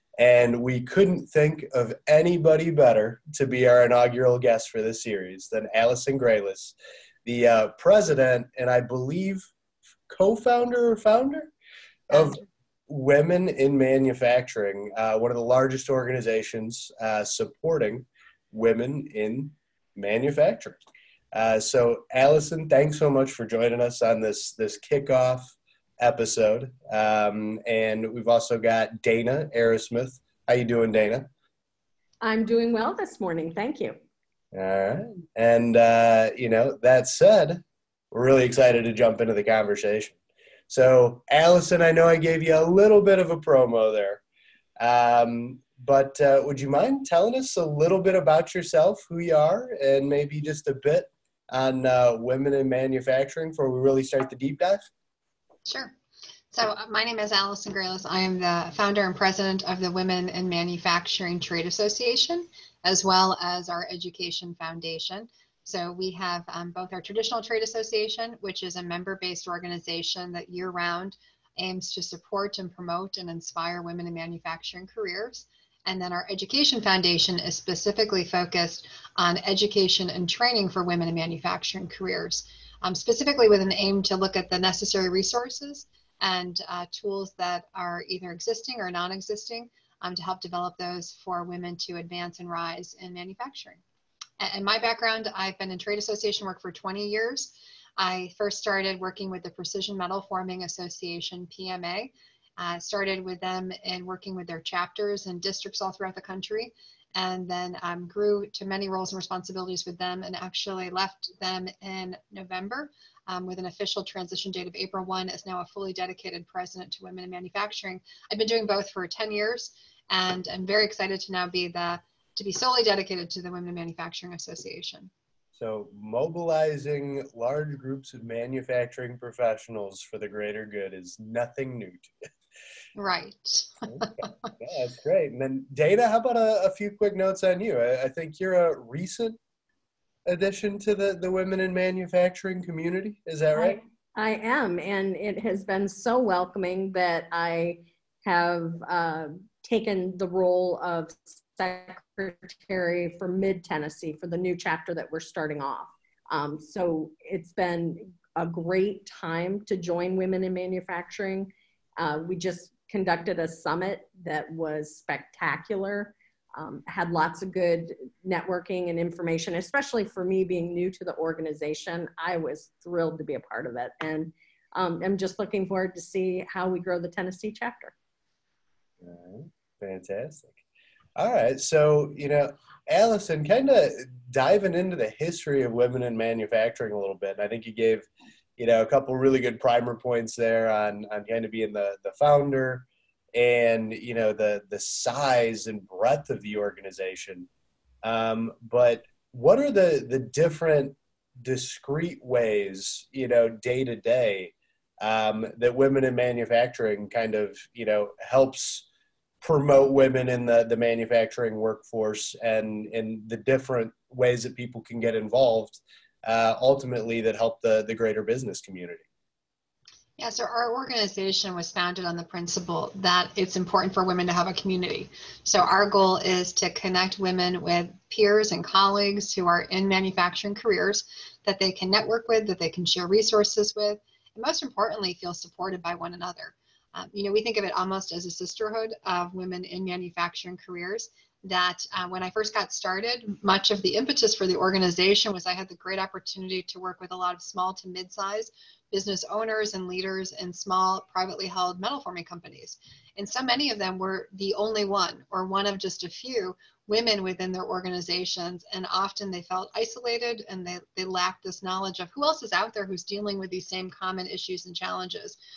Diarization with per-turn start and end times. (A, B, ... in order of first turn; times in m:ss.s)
0:00.2-0:09.5 A
0:10.1-0:11.5 A
0:12.1-0:20.8 A
0:21.3-0:31.3 A
0:32.2-0:34.0 B
0:34.5-0:40.2 A
0:40.7-0:44.2 A
0:44.8-0:54.9 A
0:55.6-0:55.9 C
0:56.5-1:33.8 C
1:34.4-2:05.1 C
2:05.5-2:12.1 A
2:12.9-2:14.3 C
2:14.6-2:19.4 A
2:20.2-2:23.8 A
2:23.6-2:57.9 B
2:59.0-3:00.6 A
3:01.2-3:17.5 A
3:18.0-3:28.8 A
3:29.4-3:39.0 A
3:40.2-4:25.4 C